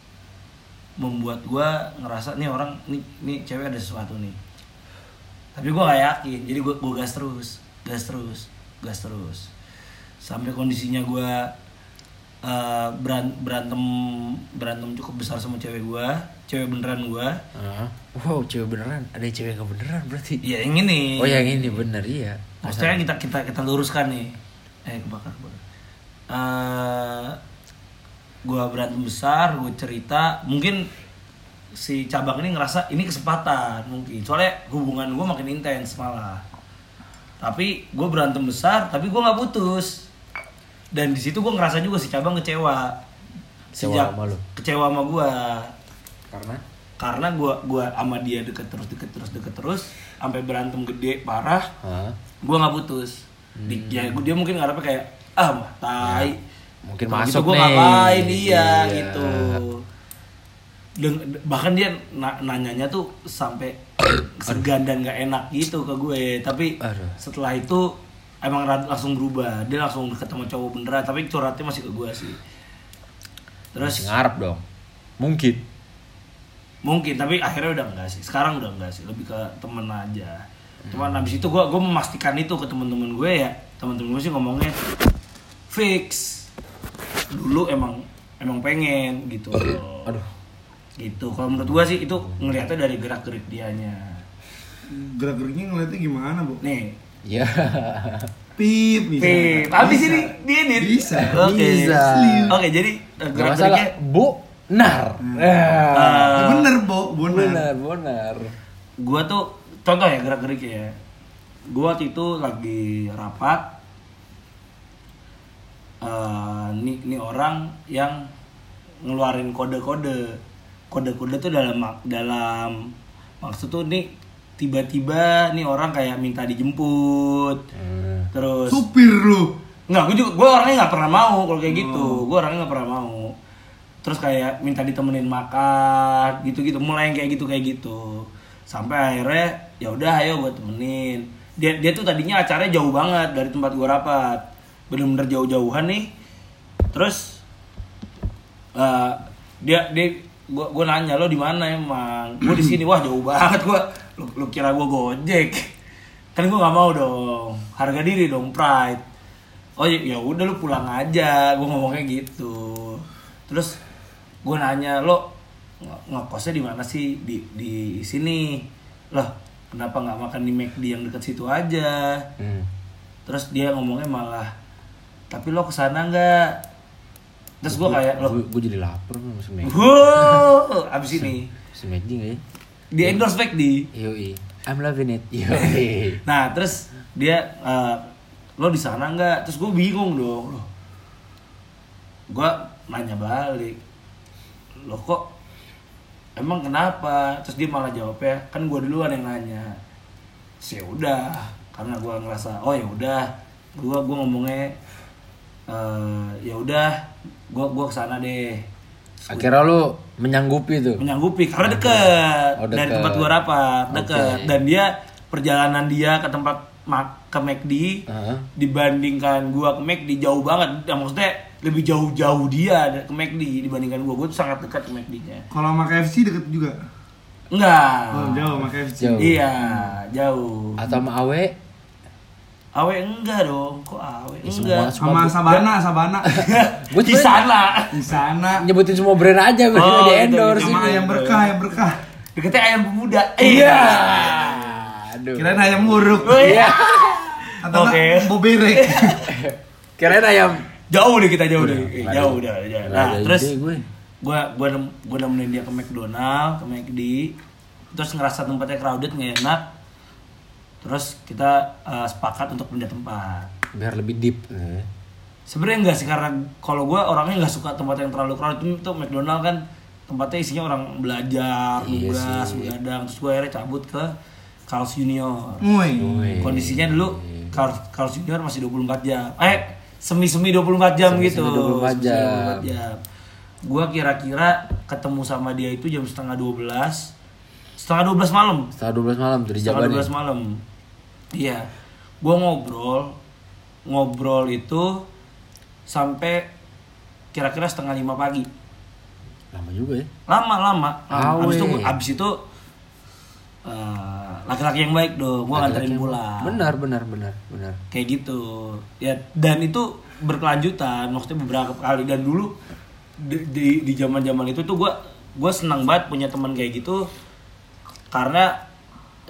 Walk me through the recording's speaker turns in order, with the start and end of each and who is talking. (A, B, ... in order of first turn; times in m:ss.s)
0:01.0-0:04.4 A
0:05.6-0:09.5 A
0:10.2-0:11.5 A
0:12.4-0:17.4 A
0:17.5-0:20.4 B
0:20.4-0:21.8 A
0:21.2-0:23.0 B
0:22.6-0:24.3 A
0:24.8-0:25.6 A
0:26.3-0:27.4 A
0:28.4-0:30.9 A
0:31.7-0:36.4 A
0:37.4-0:40.1 A
0:40.9-0:43.0 A
0:43.7-0:45.7 A
0:43.8-0:44.4 B
0:46.3-0:46.6 B
0:47.0-0:51.7 A
0:51.8-0:52.2 B
0:52.4-0:56.4 A
0:53.6-0:54.2 B
0:56.0-0:56.3 B
0:56.8-0:59.6 B
0:57.1-0:59.8 A
1:01.0-1:12.4 A
1:06.8-1:07.2 B
1:13.7-1:14.1 A
1:13.8-1:14.6 B
1:15.2-1:15.6 B
1:16.8-1:24.8 A
1:20.8-1:21.3 B
1:25.7-1:26.5 A
1:27.3-1:30.1 A
1:29.6-1:30.3 B
1:31.0-1:34.2 A
1:31.6-1:32.6 B
1:34.9-1:36.6 C
1:36.6-1:36.9 A
1:37.2-1:38.3 B
1:38.6-1:42.6 C
1:39.2-1:43.9 A
1:41.2-1:42.6 B
1:43.3-1:46.5 B
1:45.2-1:47.7 C
1:45.9-1:46.7 A
1:47.3-1:48.5 B
1:49.0-1:50.9 A
1:51.7-1:53.7 A
1:56.0-1:58.3 A
1:59.0-2:00.4 A
2:00.9-2:07.6 A
2:07.7-2:08.3 B
2:08.3-2:08.8 A
2:08.7-2:09.6 C
2:09.9-2:13.3 A
2:11.7-2:12.2 C
2:14.0-2:26.1 A
2:26.9-2:27.4 A
2:28.7-2:35.7 A
2:36.3-2:39.0 A
2:39.8-2:43.8 A
2:44.4-2:45.3 A
2:45.8-2:52.3 A
2:52.4-2:52.7 B
2:53.2-2:54.5 A
2:55.3-2:56.6 A
2:57.6-2:58.4 A
2:57.7-3:00.5 B
2:59.6-3:01.5 A
3:01.2-3:02.4 B
3:02.9-3:03.9 A
3:03.9-3:06.2 B
3:06.2-3:10.7 A
3:12.3-3:13.8 A
3:14.8-3:15.3 A
3:16.4-3:19.8 A
3:20.6-3:24.8 A
3:25.7-3:28.6 A
3:29.3-3:31.0 B
3:31.0-3:38.0 A
3:31.6-3:33.3 B
3:33.9-3:34.6 B
3:38.1-3:38.5 B
3:38.6-3:45.5 A
3:45.5-3:46.8 C
3:47.5-3:48.6 A
3:48.1-3:49.4 C
3:49.0-3:49.9 B
3:49.2-3:50.8 A
3:50.8-3:51.6 B
3:52.7-3:54.9 A
3:54.4-3:55.6 B
3:55.0-3:56.4 C
3:56.3-3:57.4 B
3:56.3-3:57.9 A
3:57.9-3:58.7 C
3:58.6-4:01.0 B
3:59.7-4:01.5 A
4:00.6-4:02.0 C
4:02.4-4:04.8 A
4:03.4-4:07.4 B
4:05.4-4:06.6 C
4:06.2-4:09.2 A
4:07.6-4:09.2 C
4:09.3-4:10.7 B
4:10.9-4:13.5 A
4:11.6-4:13.8 B
4:14.2-4:17.4 A
4:17.9-4:19.7 A
4:20.8-4:23.5 A
4:23.7-4:24.9 B
4:25.5-4:34.1 A
4:31.8-4:32.7 B
4:34.7-4:35.6 A
4:35.6-4:36.4 C
4:35.9-4:37.6 B
4:36.4-4:43.0 A
4:41.1-4:42.7 B
4:43.6-4:47.1 A
4:47.8-4:48.7 A
4:48.7-4:50.1 B
4:49.6-4:50.6 A
4:51.3-4:51.7 A
4:52.2-4:53.2 A
4:53.8-4:55.0 A
4:55.9-4:56.5 A
4:57.3-4:58.5 A
4:59.5-5:00.1 B
5:00.3-5:02.4 A
5:01.1-5:02.0 B
5:03.6-5:06.7 A
5:05.5-5:07.8 B
5:07.9-5:12.5 A
5:13.2-5:17.1 A
5:18.1-5:18.6 A